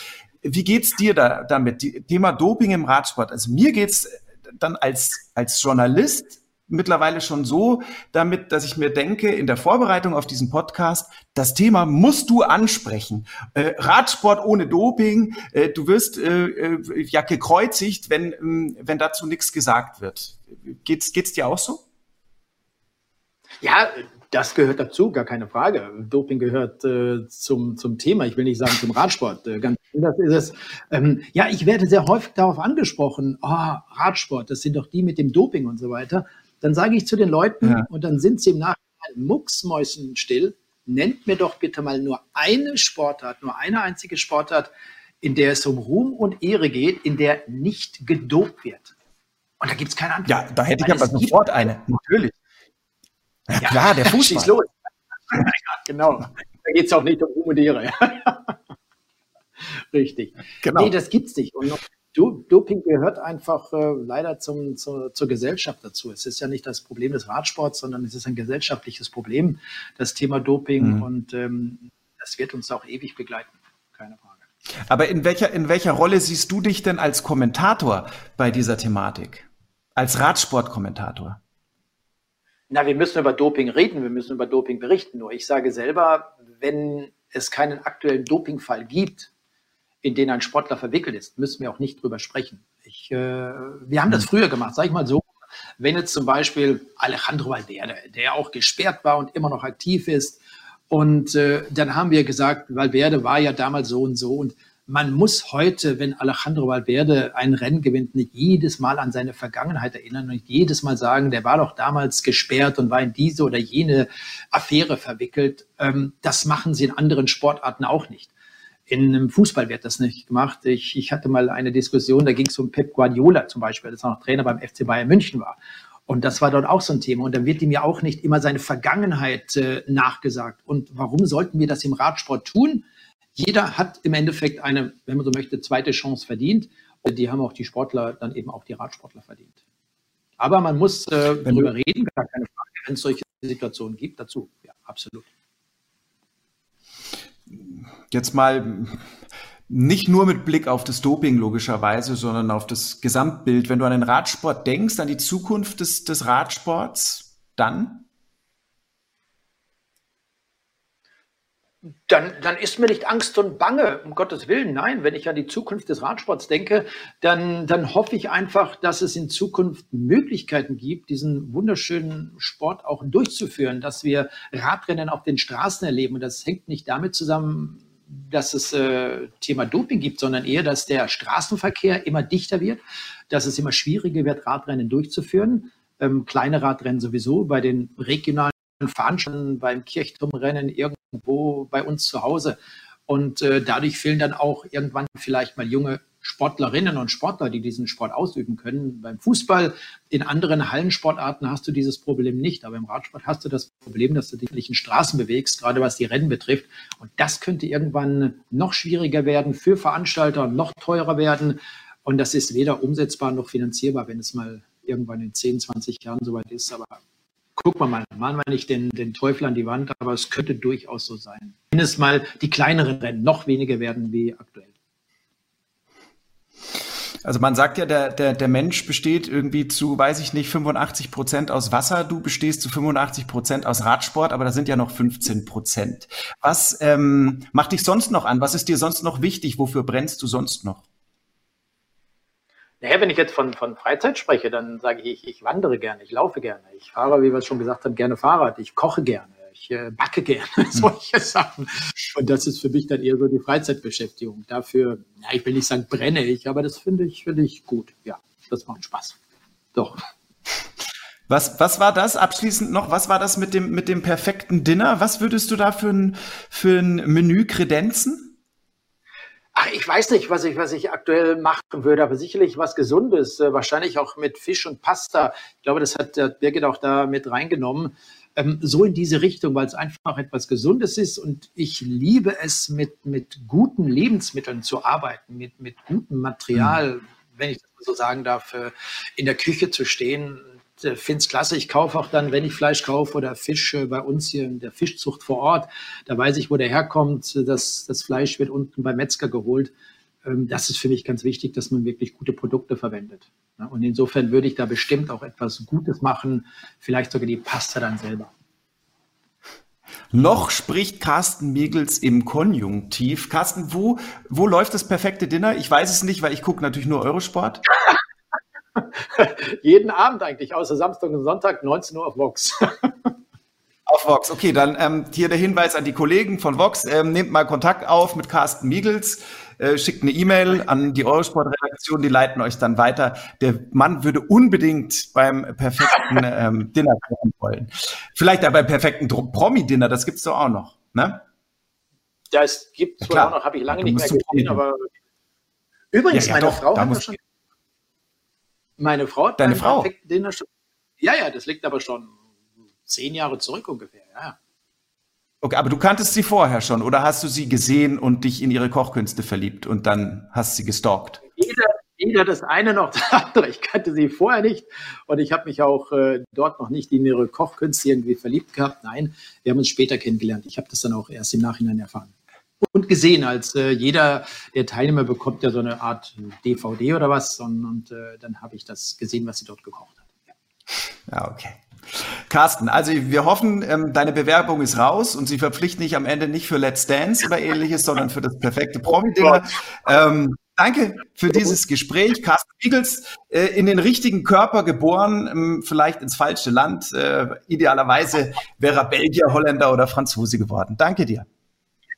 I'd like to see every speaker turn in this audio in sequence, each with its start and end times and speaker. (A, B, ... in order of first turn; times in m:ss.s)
0:00.4-0:21.8 A
0:23.6-0:48.9 B
0:49.6-0:51.4 B
0:50.2-0:52.3 A
0:53.5-0:54.5 A
0:53.6-0:54.7 B
0:55.3-0:58.5 B
0:59.9-1:14.4 B
1:00.6-1:00.9 A
1:14.9-1:21.4 A
1:22.7-1:29.3 B
1:30.0-1:35.3 B
1:35.8-1:40.4 B
1:40.9-1:58.3 B
1:58.9-2:05.6 B
2:06.1-2:12.8 B
2:13.4-2:19.5 B
2:20.4-2:25.3 B
2:27.5-2:29.0 A
2:29.7-2:38.0 A
2:42.1-3:12.6 B
3:13.1-3:37.0 B
3:37.6-3:44.7 B
3:47.2-4:00.8 A
4:02.8-4:19.2 B
4:19.7-4:20.0 B
4:21.3-4:28.3 A
4:29.5-4:59.7 B
5:00.2-5:08.3 B
5:10.1-5:17.6 A
5:19.1-5:22.9 B
5:23.8-5:41.2 A
5:42.3-5:44.9 B
5:43.0-5:44.6 A
5:45.9-5:47.2 B
5:46.1-5:47.1 A
5:48.8-5:50.5 B
5:49.4-5:49.9 A
5:51.0-5:52.1 B
5:52.8-5:54.4 B
5:55.4-6:01.2 A
6:01.4-6:12.1 B
6:12.6-6:20.2 B
6:21.1-6:41.3 A